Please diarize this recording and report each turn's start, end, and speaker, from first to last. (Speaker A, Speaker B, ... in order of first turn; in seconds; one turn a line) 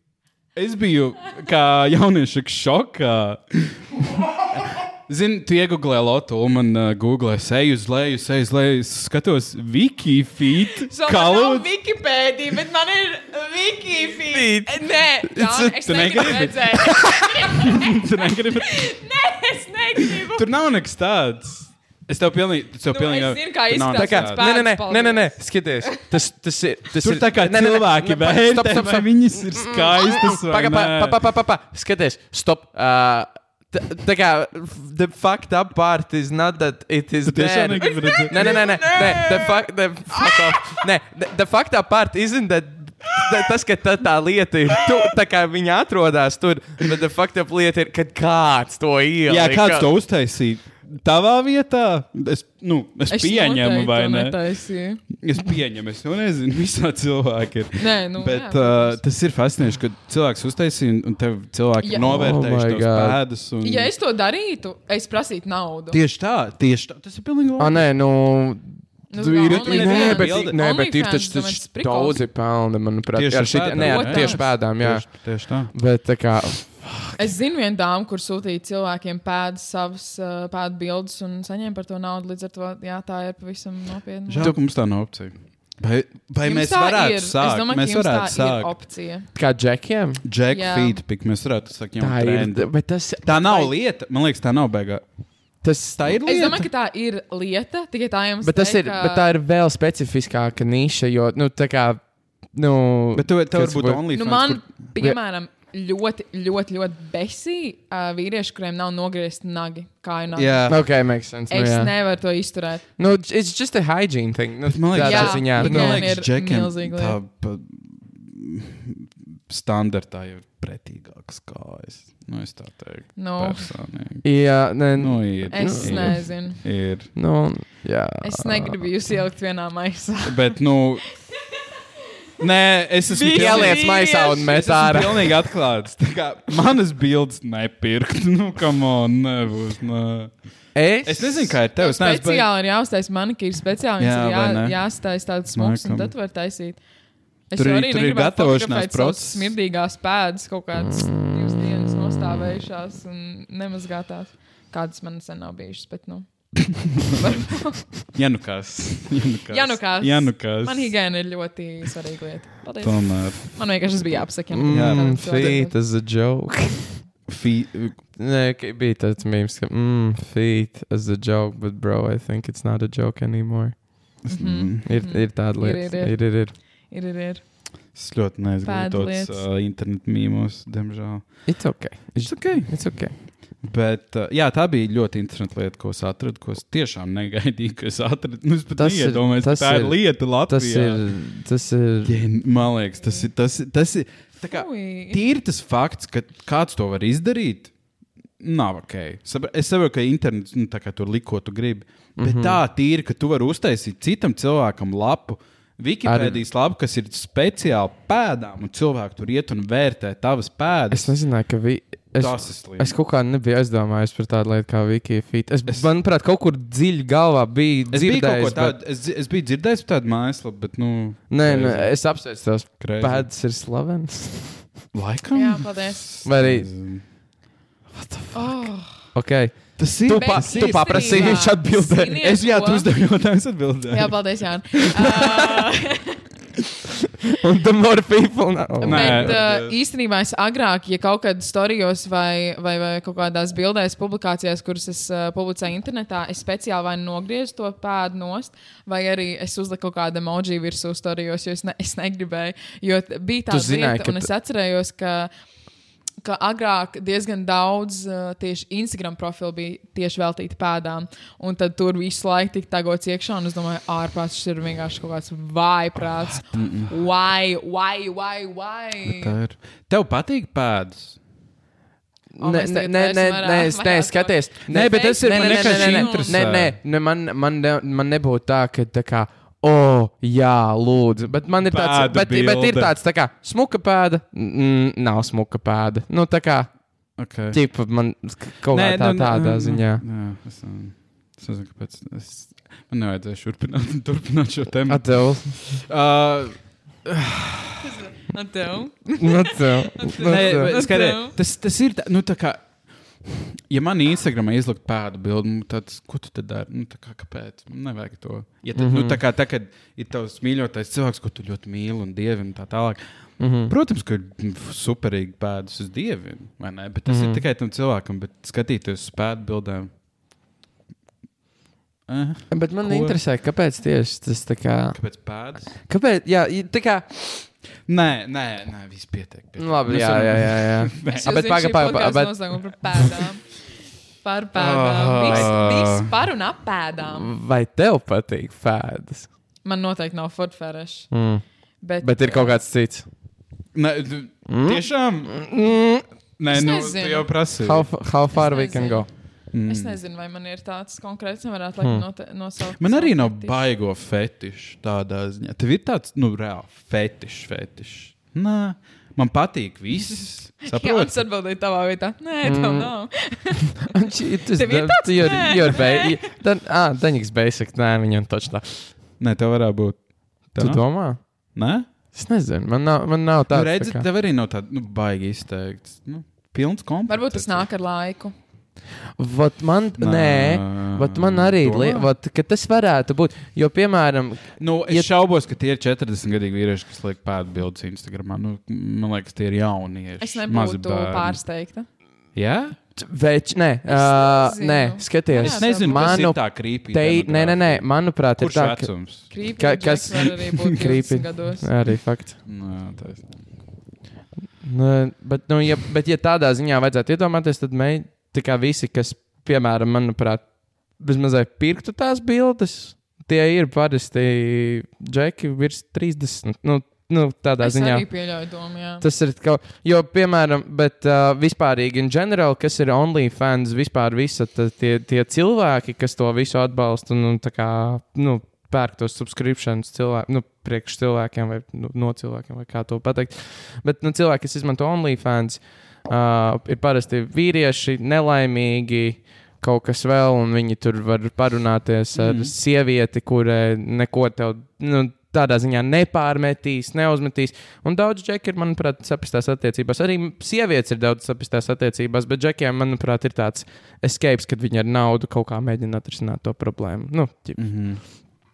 Speaker A: 0.6-11.7
Speaker B: 10.9-20.5
Speaker C: 14.3-15.8
Speaker A: 15.8-18.9
Speaker A: 20.1-24.4
Speaker B: 22.9-25.9
Speaker C: 23.9-49.9
Speaker A: 27.0-31.2
Speaker A: 37.3-39.0
Speaker B: 37.9-39.5
Speaker A: 49.3-54.4
Speaker B: 53.1-55.0
Speaker A: 55.1-63.9
Speaker B: 57.8-59.0
Speaker B: 61.8-62.1
Speaker C: 62.0-63.2
Speaker B: 63.6-66.0
Speaker A: 65.9-67.9
Speaker C: 67.6-77.2
Speaker B: 69.1-72.2
Speaker A: 69.5-70.6
Speaker A: 73.1-75.7
Speaker B: 73.8-74.5
Speaker B: 77.2-84.5
Speaker A: 84.3-88.7
Speaker B: 86.4-89.3
Speaker C: 89.3-90.2
Speaker A: 90.2-95.1
Speaker B: 90.5-91.0
Speaker C: 92.0-93.7
Speaker C: 95.6-96.1
Speaker A: 96.0-96.7
Speaker B: 96.3-99.3
Speaker C: 98.4-104.0
Speaker A: 103.2-104.6
Speaker B: 104.1-112.9
Speaker A: 110.4-110.8
Speaker C: 110.7-111.9
Speaker C: 113.0-116.1
Speaker A: 114.7-127.1
Speaker B: 115.0-117.2
Speaker B: 123.2-123.7
Speaker C: 124.2-126.3
Speaker B: 125.5-126.6
Speaker C: 127.1-128.8
Speaker B: 128.2-130.6
Speaker A: 130.2-131.1
Speaker A: 132.4-142.5
Speaker B: 133.1-135.1
Speaker C: 133.3-135.3
Speaker C: 140.7-141.6
Speaker B: 141.8-146.8
Speaker A: 144.0-144.9
Speaker A: 145.5-146.1
Speaker B: 147.5-158.1
Speaker A: 147.6-149.6
Speaker A: 158.1-161.0
Speaker B: 159.5-165.7
Speaker A: 162.8-163.6
Speaker C: 164.5-167.1
Speaker A: 164.7-165.6
Speaker A: 167.3-168.0
Speaker C: 168.2-174.2
Speaker A: 174.2-174.8
Speaker B: 174.3-177.4
Speaker C: 174.8-176.5
Speaker A: 177.9-181.6
Speaker B: 178.6-179.4
Speaker C: 181.5-183.1
Speaker A: 182.2-191.1
Speaker C: 188.8-192.2
Speaker A: 192.1-197.7
Speaker B: 194.4-195.2
Speaker A: 198.4-211.1
Speaker C: 202.2-202.6
Speaker C: 206.1-206.4
Speaker C: 210.9-218.8
Speaker A: 212.2-213.0
Speaker A: 217.9-222.0
Speaker C: 221.3-224.7
Speaker A: 222.8-223.3
Speaker A: 224.9-227.1
Speaker B: 225.3-226.2
Speaker C: 226.2-226.7
Speaker C: 227.9-232.2
Speaker B: 228.3-229.1
Speaker A: 229.8-231.6
Speaker B: 230.1-232.9
Speaker A: 232.2-235.3
Speaker B: 233.9-236.2
Speaker C: 237.4-239.4
Speaker B: 238.8-255.3
Speaker A: 238.8-239.8
Speaker C: 253.5-254.3
Speaker B: 256.2-269.4
Speaker A: 266.5-266.9
Speaker A: 269.1-271.2
Speaker C: 272.4-286.9
Speaker B: 272.4-276.5
Speaker A: 274.7-276.8
Speaker A: 281.6-282.9
Speaker A: 287.2-287.6
Speaker C: 287.5-290.0
Speaker A: 288.7-297.9
Speaker C: 294.9-295.7
Speaker B: 297.8-301.4
Speaker C: 299.2-300.7
Speaker A: 300.2-319.9
Speaker C: 308.8-309.2
Speaker C: 313.4-313.7
Speaker C: 317.1-317.4
Speaker A: 322.1-323.2
Speaker C: 322.5-325.0
Speaker A: 324.9-325.8
Speaker C: 325.7-327.5
Speaker A: 327.9-331.4
Speaker C: 329.6-332.4
Speaker B: 331.1-333.6
Speaker B: 334.2-337.3
Speaker A: 334.6-336.1
Speaker C: 335.2-335.5
Speaker C: 337.1-339.3
Speaker B: 339.6-341.2
Speaker C: 341.1-341.4
Speaker B: 341.8-342.6
Speaker C: 342.0-343.1
Speaker A: 343.7-345.5
Speaker C: 344.5-346.1
Speaker A: 346.4-347.9
Speaker B: 346.5-347.3
Speaker C: 347.6-349.1
Speaker B: 348.3-353.6
Speaker A: 349.5-350.0
Speaker A: 352.8-361.2
Speaker B: 360.6-364.0
Speaker C: 362.4-368.9
Speaker B: 364.5-366.2
Speaker A: 369.2-371.9
Speaker C: 370.6-371.5
Speaker C: 372.1-374.1
Speaker A: 373.5-377.7
Speaker B: 377.1-378.3
Speaker C: 379.2-385.1
Speaker A: 380.0-382.1
Speaker A: 384.6-391.4
Speaker B: 390.2-391.9
Speaker A: 392.3-392.8
Speaker C: 393.0-402.4
Speaker B: 393.9-396.3
Speaker A: 395.4-399.4
Speaker B: 399.3-401.7
Speaker A: 402.4-403.4
Speaker C: 404.6-418.1
Speaker B: 417.6-419.1
Speaker C: 419.0-457.8
Speaker A: 442.1-442.5
Speaker A: 457.6-458.0